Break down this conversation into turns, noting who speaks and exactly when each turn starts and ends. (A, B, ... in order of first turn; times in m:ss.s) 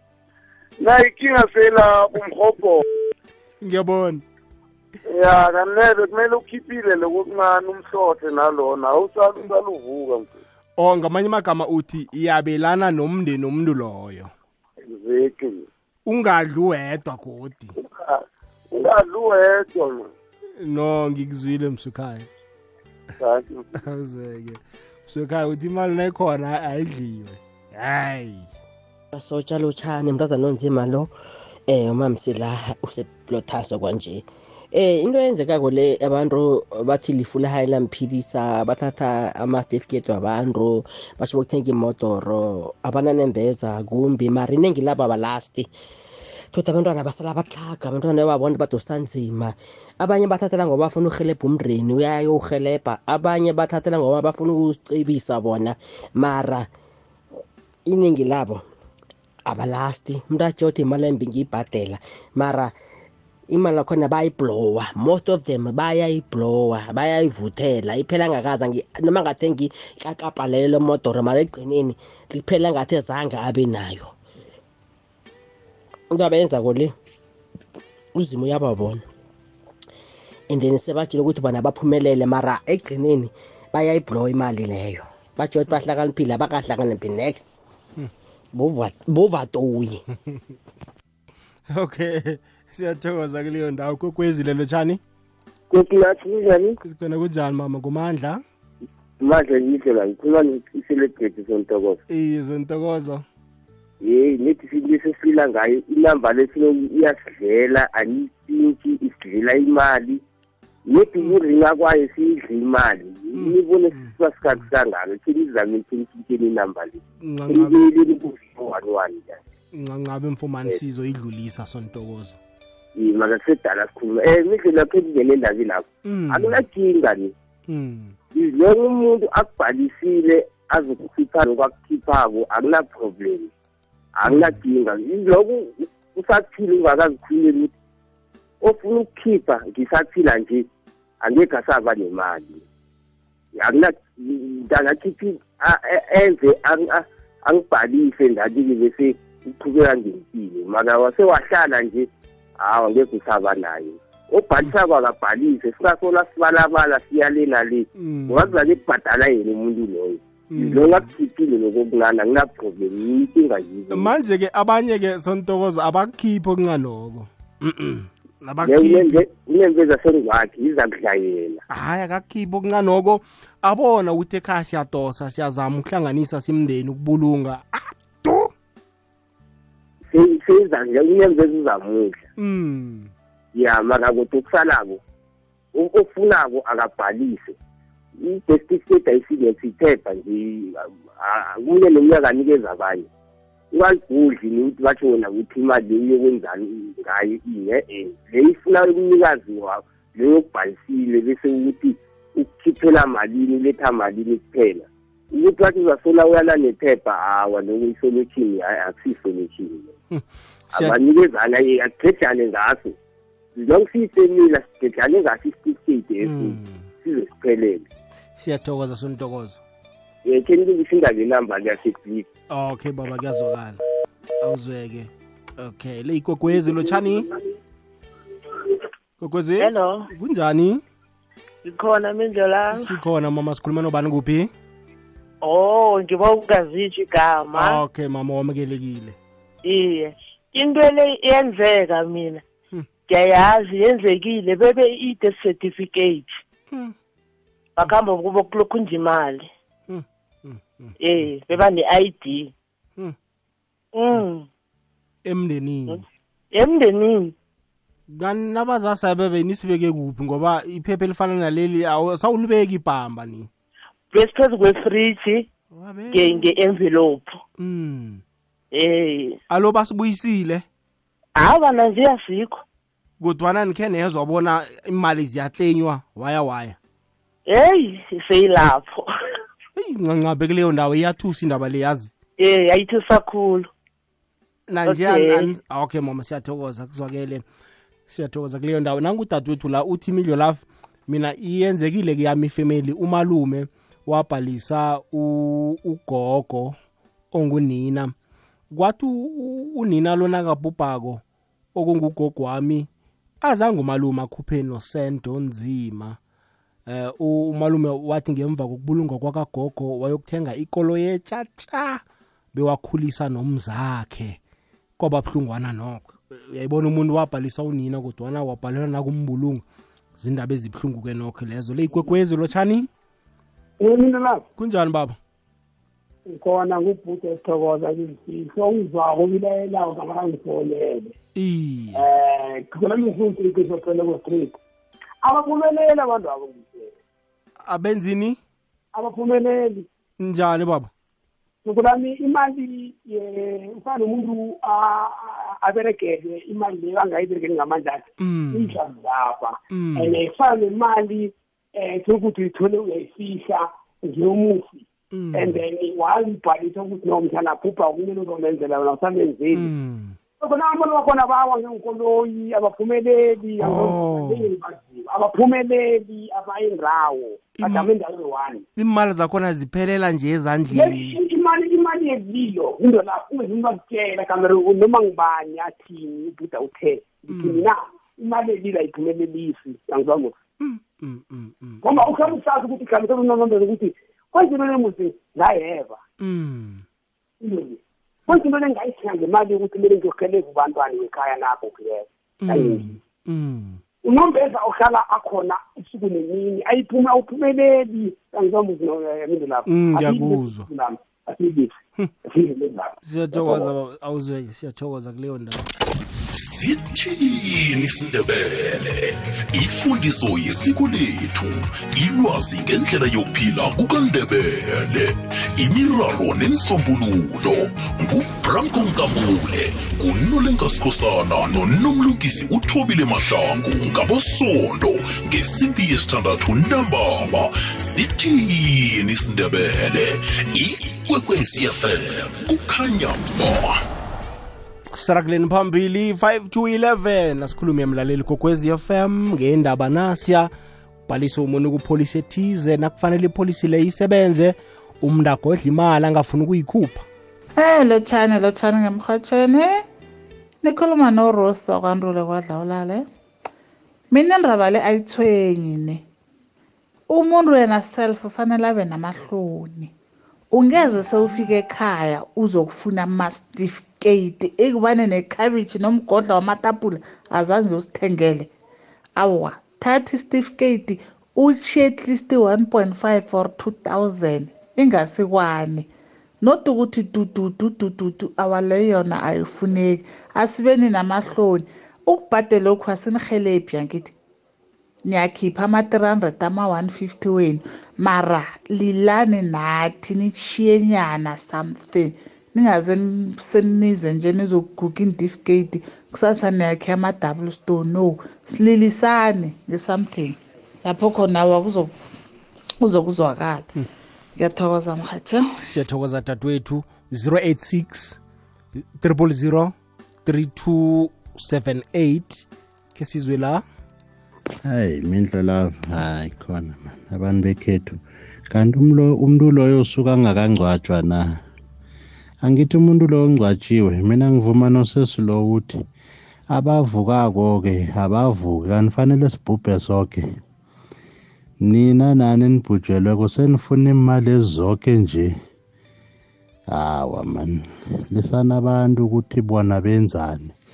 0:00.8-0:02.8 A
0:03.6-0:04.2 B
0:05.1-0:10.3 A
0:10.8-0:14.3 B
0:14.8-0:15.7 A
0:16.1-0:17.7 B
0:17.8-0:20.1 A
0:20.6-0:22.3 B
0:23.2-0:23.7 A
0:23.8-0:28.5 B
0:29.1-0:31.1 C
0:31.7-0:45.7 C
0:46.5-0:56.7 C
0:57.9-0:58.6 C
0:59.5-1:02.7 C
1:03.5-1:14.1 C
1:16.1-1:16.9 C
1:18.2-1:19.0 C
1:20.5-1:27.6 C
1:28.5-1:30.0 C
1:31.7-1:35.0 B
1:35.7-1:36.8 D
1:36.8-1:38.4 B
1:39.2-1:42.0 D
1:42.1-1:43.2 B
1:44.0-1:50.2 D
1:50.9-1:59.4 D
1:53.4-1:54.1 B
1:57.2-1:57.8 B
1:59.7-2:02.4 B
2:03.0-2:07.3 D
2:06.0-2:06.6 B
2:07.7-2:08.2 B
2:08.3-2:13.5 D
2:14.2-2:17.7 D
2:14.3-2:14.6 B
2:18.6-2:20.7 D
2:21.2-2:22.6 D
2:23.6-2:32.1 D
2:32.6-2:44.1 D
2:38.0-2:38.6 B
2:40.5-2:41.1 B
2:43.9-2:49.2 B
2:48.6-2:51.6 D
2:51.7-2:58.5 B
3:00.1-3:02.2 D
3:02.4-3:03.1 B
3:03.6-3:05.0 D
3:05.8-3:07.6 D
3:08.2-3:13.1 D
3:13.7-3:29.9 D
3:30.1-3:31.0 B
3:30.7-3:33.0 D
3:33.6-3:37.8 D
3:36.2-3:36.9 B
3:38.4-3:39.6 B
3:40.2-3:42.3 D
3:42.5-3:43.8 B
3:44.4-3:47.3 B
3:46.7-3:47.0 E
3:49.2-3:50.8 B
3:49.6-3:50.1 F
3:51.6-3:52.9 F
3:52.7-3:54.5 B
3:55.4-3:57.8 F
3:57.5-3:59.2 B
3:59.6-4:02.4 F
4:03.1-4:06.3 F
4:07.8-4:09.5 F
4:09.9-4:11.3 B
4:11.0-4:12.5 F
4:13.9-4:14.5 F
4:15.2-4:16.0 B
4:16.5-4:17.3 F
4:18.1-4:23.5 B
4:24.1-4:25.5 F
4:25.7-4:26.6 B
4:26.1-4:27.4 F
4:27.6-4:28.2 B
4:28.7-4:29.4 F
4:29.5-4:30.6 B
4:31.4-4:32.6 F
4:33.2-4:36.8 B
4:37.5-4:39.1 F
4:39.8-4:42.1 B
4:42.4-4:43.7 F
4:44.7-4:47.4 B
4:44.8-4:45.5 F
4:48.1-4:56.8 B
4:57.3-4:58.1 B
4:58.7-5:01.2 B
5:01.8-5:02.9 B
5:03.4-5:06.2 B
5:06.9-5:12.0 B
5:12.5-5:14.4 B
5:15.0-5:19.6 B
5:20.2-5:22.9 B
5:23.8-5:24.4 E
5:24.6-5:25.2 B
5:26.3-5:31.1 E
5:31.4-5:32.0 B
5:32.0-5:34.6 E
5:35.2-5:37.0 E
5:37.7-5:38.4 B
5:39.0-5:39.9 E
5:40.2-5:40.9 B
5:41.6-5:59.7 E
5:48.2-5:48.8 B
5:49.7-5:50.2 B
5:55.1-5:55.6 B
5:59.5-6:00.2 B
6:00.4-6:08.6 E
6:03.6-6:04.5 B
6:07.6-6:07.9 B
6:08.8-6:11.2 B
6:10.7-6:20.4 E
6:17.3-6:17.7 B
6:20.6-6:22.4 B
6:21.8-6:26.0 E
6:26.2-6:26.8 B
6:27.4-6:33.0 E
6:32.4-6:33.8 B
6:34.0-6:41.7 E
6:39.7-6:40.7 B
6:42.3-6:43.7 E
6:43.0-6:45.6 B
6:46.3-7:13.8 G
7:14.9-7:20.5 B
7:21.1-7:27.1 B
7:27.6-7:29.8 H
7:30.6-7:33.1 H
7:34.1-7:36.0 H
7:37.1-7:39.9 H
7:40.5-7:48.5 H
7:49.2-7:55.9 H
7:56.4-8:04.1 H
8:05.0-8:21.9 H
8:22.8-8:23.7 H
8:24.4-8:25.4 H
8:25.6-8:28.2 B
8:28.8-8:33.6 B
8:34.6-8:38.0 I
8:38.5-8:41.4 I
8:42.4-8:45.8 I
8:46.5-8:50.3 I
8:51.6-8:55.4 I
8:56.7-9:00.6 I